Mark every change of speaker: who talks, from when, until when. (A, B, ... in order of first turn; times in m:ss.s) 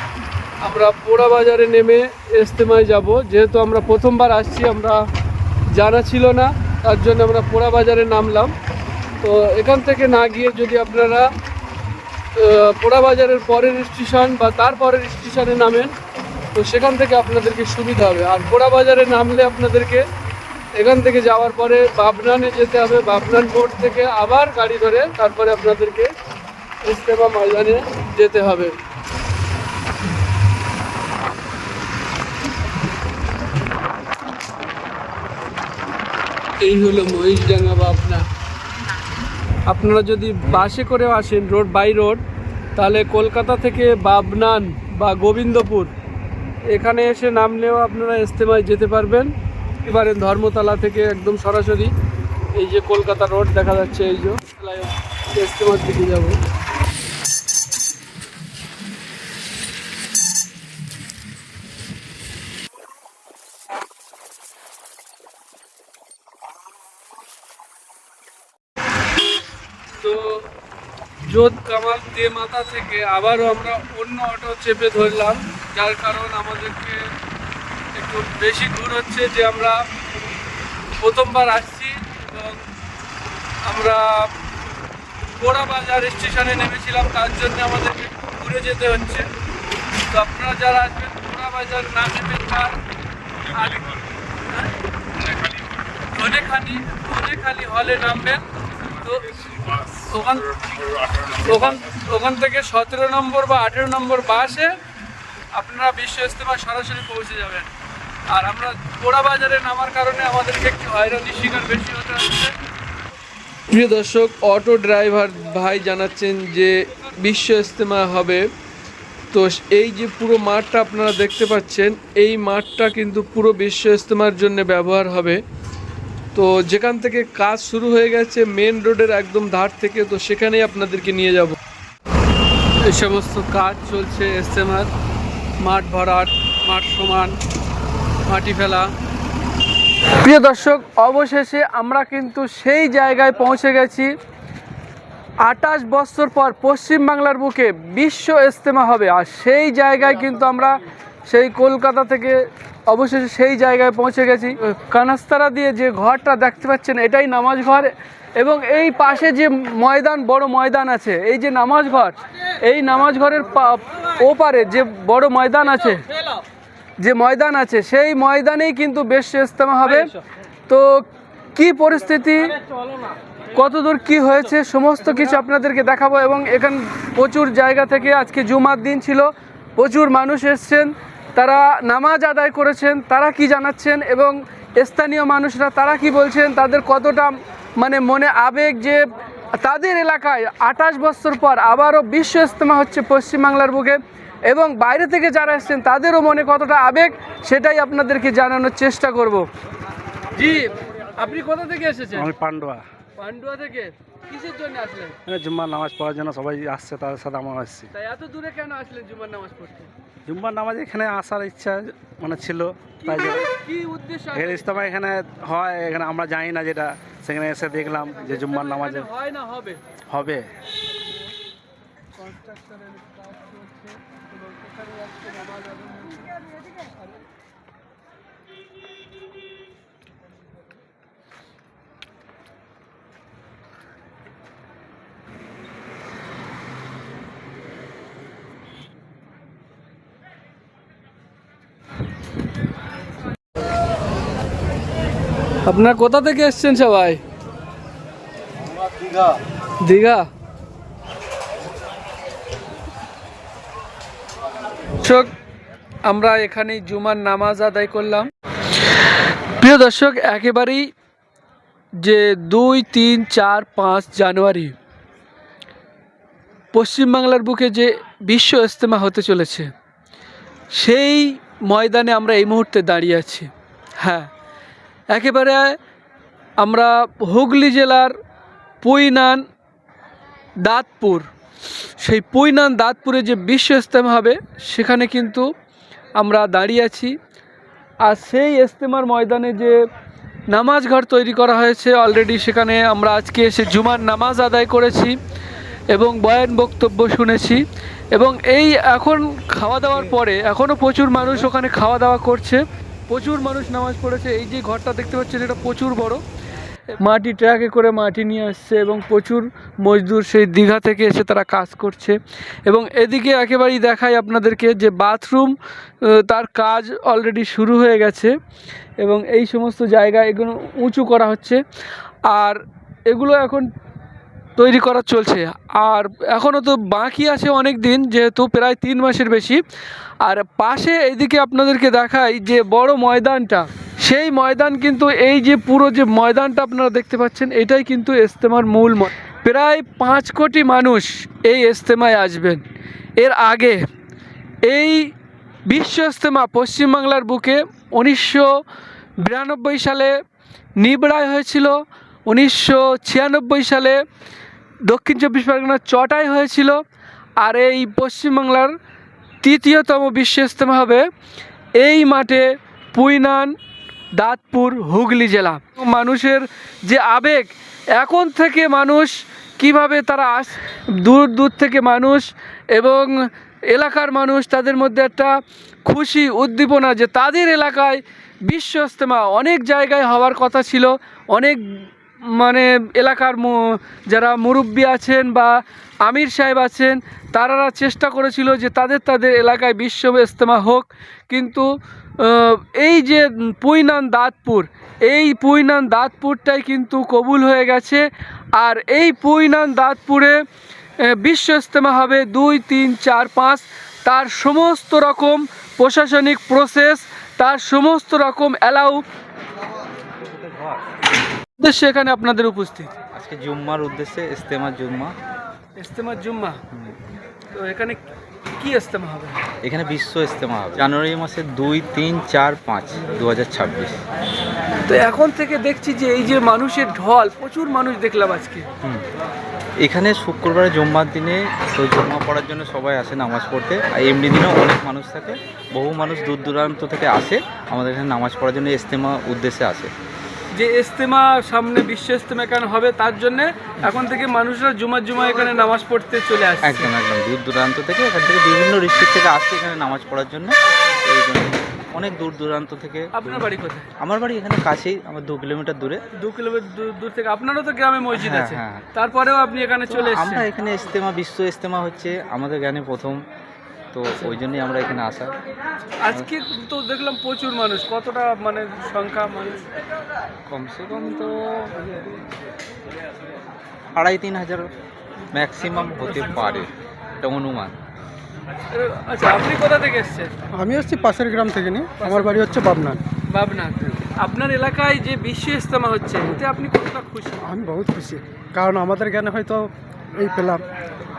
0:00.6-0:05.1 A
0:05.7-0:08.5 A
0:09.2-0:11.3 A
0:12.4-0:16.0 A
0:16.5-0:20.0 A
0:20.7-0:26.1 A
0:26.8-0:28.8 A
0:36.6-0:38.2 A
0:39.7-0:42.2 A
0:42.8-0:45.9 A
0:46.7-0:51.9 A
0:52.6-0:56.4 A
1:10.0-1:10.5 A
1:11.2-1:17.1 A
1:17.9-1:19.8 A
1:21.0-1:22.6 A
1:23.6-1:24.3 A
1:25.4-1:29.3 A
1:30.1-1:32.7 A
1:33.5-1:34.0 A
1:34.5-1:35.6 A
1:36.1-1:38.4 A
1:39.0-1:44.7 A
1:45.5-1:47.7 A
1:48.3-1:52.5 A
1:53.7-1:58.4 A
1:59.3-2:05.4 A
2:06.3-2:11.6 A
2:12.8-2:14.9 A
2:15.6-2:17.4 A
2:18.2-2:18.9 A
2:20.2-2:24.1 A
2:25.4-2:46.0 A
2:47.0-2:50.1 A
2:50.7-2:52.6 A
2:53.5-3:19.5 A
3:20.4-3:22.3 A
3:22.1-3:22.8 B
3:23.2-3:25.2 A
3:25.3-3:27.9 B
3:27.9-3:29.9 A
3:30.2-3:33.4 B
3:33.0-3:34.8 A
3:34.3-3:39.1 B
3:38.4-3:39.8 A
3:40.1-3:40.5 B
3:42.2-3:46.2 A
4:05.6-4:07.2 A
4:09.8-4:10.2 A
4:15.0-4:15.3 A
4:16.0-4:18.3 A
4:19.6-4:20.9 A
4:22.0-4:24.7 A
4:26.7-4:29.7 A
4:30.7-4:33.5 A
4:34.0-4:34.3 A
4:35.1-4:35.8 A
4:36.6-4:38.1 A
4:38.8-4:39.4 A
4:40.6-4:41.3 A
4:42.0-4:45.4 A
4:46.2-4:47.1 A
4:48.0-4:49.8 A
4:50.5-4:55.2 A
4:55.9-5:06.2 A
5:07.0-5:18.3 A
5:19.0-5:21.6 A
5:22.3-5:23.7 A
5:24.6-5:29.6 A
5:30.2-5:42.6 A
5:43.2-5:43.8 A
5:44.6-5:45.1 A
5:45.7-5:48.6 A
5:49.2-5:50.2 A
5:50.8-5:54.0 A
5:54.8-5:56.8 A
5:57.4-5:58.7 A
5:59.4-6:01.0 A
6:01.8-6:03.6 A
6:04.2-6:25.5 A
6:26.0-6:31.6 A
6:32.2-6:38.0 A
6:38.6-6:40.4 A
6:41.1-6:49.0 A
6:50.3-6:50.7 C
6:51.6-6:52.9 A
6:53.1-6:55.1 C
6:55.8-6:56.6 A
6:57.5-6:58.0 A
6:58.6-6:59.4 A
6:59.6-7:04.0 C
7:04.8-7:08.7 A
7:09.8-7:19.9 C
7:20.5-7:26.9 A
7:26.6-7:33.5 C
7:33.1-7:33.9 A
7:34.0-7:36.0 C
7:36.2-7:40.4 A
7:38.1-7:38.8 C
7:39.9-7:43.2 C
7:43.9-7:45.3 C
7:46.0-7:49.7 A
7:50.5-7:51.8 C
7:51.8-7:52.1 A
7:53.9-7:54.7 C
7:55.3-7:57.7 C
7:56.0-7:56.6 A
7:58.7-8:00.3 A
8:00.6-8:03.0 D
8:02.0-8:02.5 A
8:03.3-8:07.4 A
8:07.4-8:10.6 D